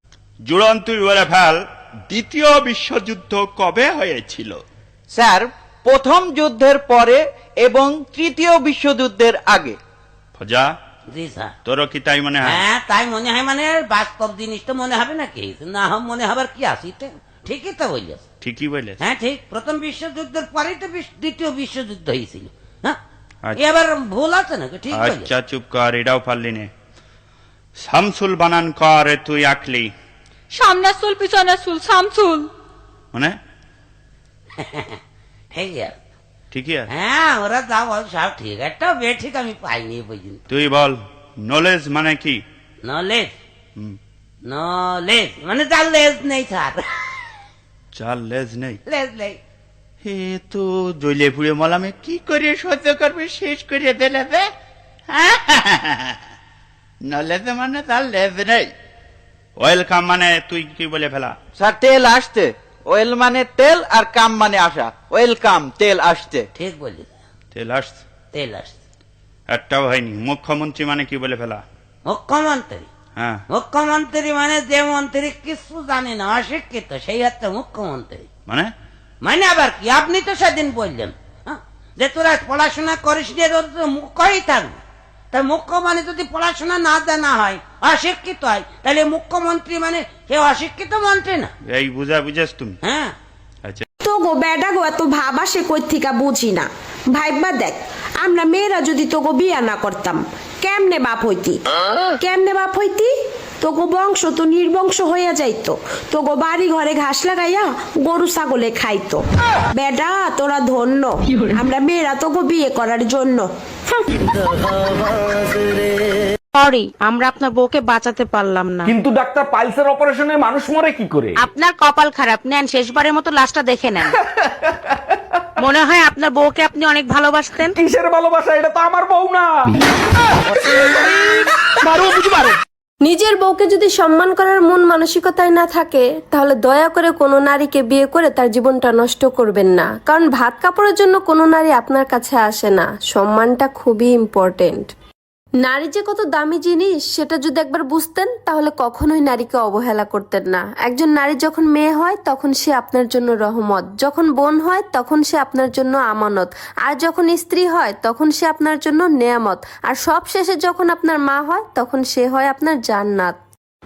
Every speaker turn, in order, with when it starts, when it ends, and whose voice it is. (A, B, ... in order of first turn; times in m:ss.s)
0:00.5-0:01.6 A
0:02.1-0:04.6 A
0:05.1-0:09.8 B
0:10.4-0:10.7 A
0:11.1-0:11.5 C
0:11.6-0:12.6 A
0:12.4-0:18.2 C
0:18.4-0:19.0 A
0:19.0-0:23.0 C
0:23.6-0:25.3 C
0:24.9-0:26.7 A
0:27.8-0:29.9 A
0:30.5-0:32.5 D
0:34.6-0:35.0 C
0:35.5-0:35.9 C
0:36.5-0:36.9 A
0:36.9-0:40.4 C
0:40.5-0:42.4 A
0:42.8-0:43.3 C
0:44.5-0:47.2 C
0:47.9-0:48.8 A
0:48.8-0:49.4 C
0:50.0-0:54.5 A
0:55.1-0:56.2 A
0:57.1-0:58.7 A
0:59.6-1:01.3 A
1:01.6-1:06.5 B
1:06.6-1:07.1 C
1:07.5-1:08.0 A
1:08.3-1:08.8 C
1:09.5-1:11.6 A
1:12.0-1:12.9 C
1:13.2-1:13.4 A
1:13.5-1:18.3 C
1:19.2-1:24.8 C
1:25.3-1:31.5 C
1:31.7-1:32.8 A
1:32.8-1:33.1 C
1:34.0-1:41.6 E
1:42.2-1:49.2 E
1:49.8-1:54.1 E
1:56.5-1:58.9 F
1:58.9-2:01.4 G
2:01.4-2:04.1 F
2:05.6-2:07.7 F
2:07.8-2:09.5 G
2:11.9-2:12.6 G
2:13.0-2:24.9 H
2:25.6-2:43.4 H